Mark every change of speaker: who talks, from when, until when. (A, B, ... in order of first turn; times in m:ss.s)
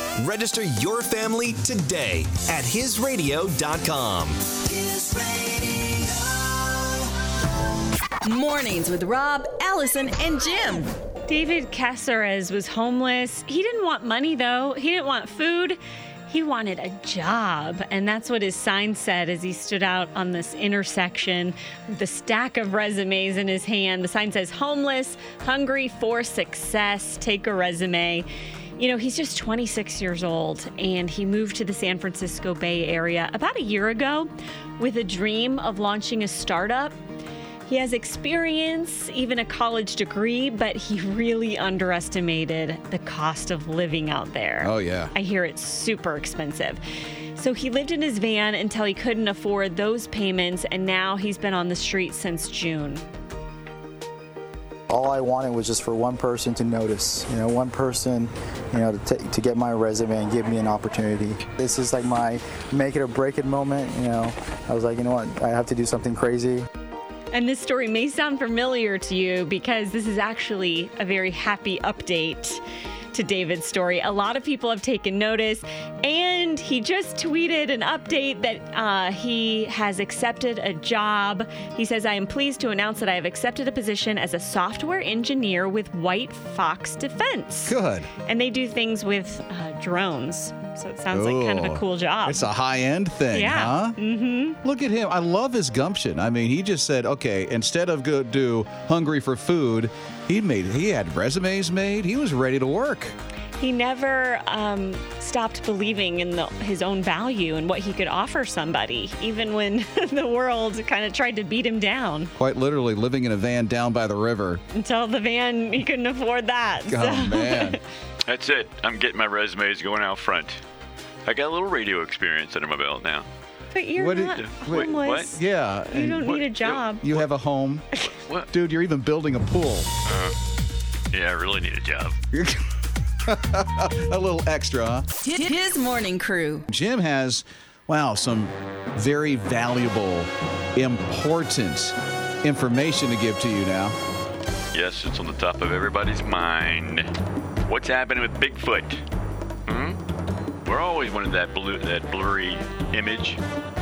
0:00.2-0:06.8 A
0:08.2-0:10.9 B
0:11.3-0:28.3 C
0:28.8-0:37.0 C
0:37.7-0:46.8 C
0:44.6-0:45.1 D
0:47.4-0:53.0 C
0:54.9-1:06.7 E
1:07.3-1:12.6 C
1:13.1-1:32.5 C
1:27.7-1:28.1 D
1:31.1-1:34.0 D
1:33.3-1:34.6 C
1:34.6-1:43.2 D
1:43.6-1:52.3 C
1:52.4-1:54.6 D
1:54.7-1:57.8 C
1:56.9-1:57.8 D
1:58.3-2:00.6 F
2:01.3-2:03.3 F
2:03.7-2:05.4 C
2:04.0-2:07.9 D
2:04.4-2:05.3 F
2:05.9-2:07.0 C
2:08.0-2:08.5 F
2:08.5-2:09.9 D
2:10.1-2:10.4 F
2:11.1-2:12.2 F
2:12.3-2:12.7 D
2:13.2-2:15.1 D
2:15.2-2:16.7 B
2:16.7-2:24.0 D
2:24.7-2:27.1 F
2:27.7-2:29.0 F
2:29.7-2:30.0 F
2:30.6-2:33.4 F